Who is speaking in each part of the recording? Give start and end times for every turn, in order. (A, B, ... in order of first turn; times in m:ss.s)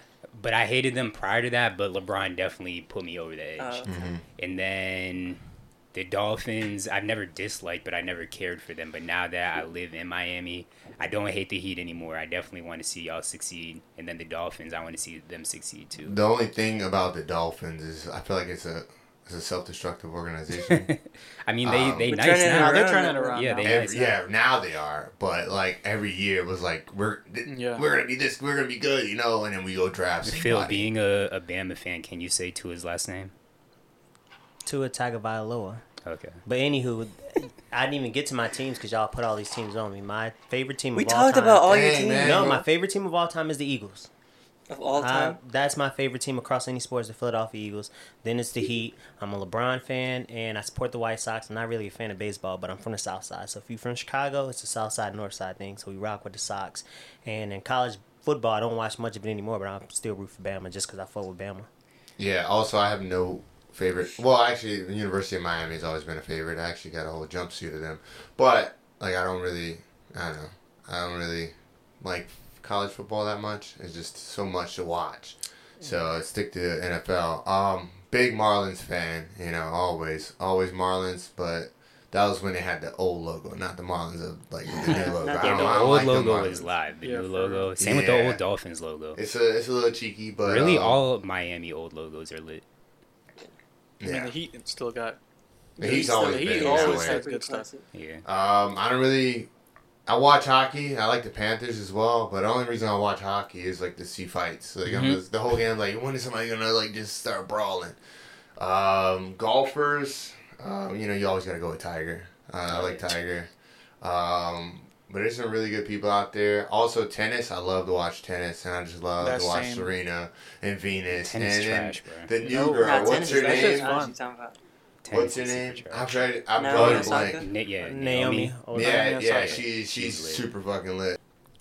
0:00.3-0:05.4 A
0:03.6-0:03.9 B
0:03.9-0:04.2 C
0:05.9-0:16.2 A
0:16.0-0:20.9 C
0:20.5-0:24.2 A
0:21.6-0:22.1 C
0:22.1-0:23.6 B
0:22.5-0:23.8 D
0:23.6-0:30.9 C
0:27.4-0:27.8 D
0:30.3-0:33.3 A
0:34.6-0:35.8 E
0:36.0-0:36.4 A
0:36.4-0:44.1 E
0:41.0-0:42.5 B
0:41.7-0:42.6 C
0:44.7-0:45.4 B
0:45.0-1:01.7 E
1:02.2-1:26.7 C
1:24.9-1:25.3 D
1:24.9-1:26.0 B
1:24.9-1:29.2 A
1:27.0-1:27.7 D
1:27.8-1:28.4 C
1:29.2-1:31.0 C
1:30.4-1:32.6 A
1:34.0-1:34.4 C
1:34.0-1:35.2 D
1:35.8-1:37.7 D
1:35.8-1:37.2 C
1:35.8-1:37.8 B
1:37.9-1:38.2 A
1:38.2-1:39.5 C
1:40.1-1:48.0 C
1:44.8-1:45.2 A
1:48.6-1:53.5 C
1:52.7-1:53.0 A
1:54.0-2:04.0 C
1:59.2-1:59.9 D
2:01.1-2:02.3 A
2:02.4-2:04.1 D
2:02.8-2:04.6 B
2:05.0-2:08.6 A
2:05.1-2:07.4 C
2:06.6-2:07.5 B
2:07.8-2:09.1 E
2:08.7-2:11.2 C
2:08.8-2:09.7 D
2:09.3-2:10.5 A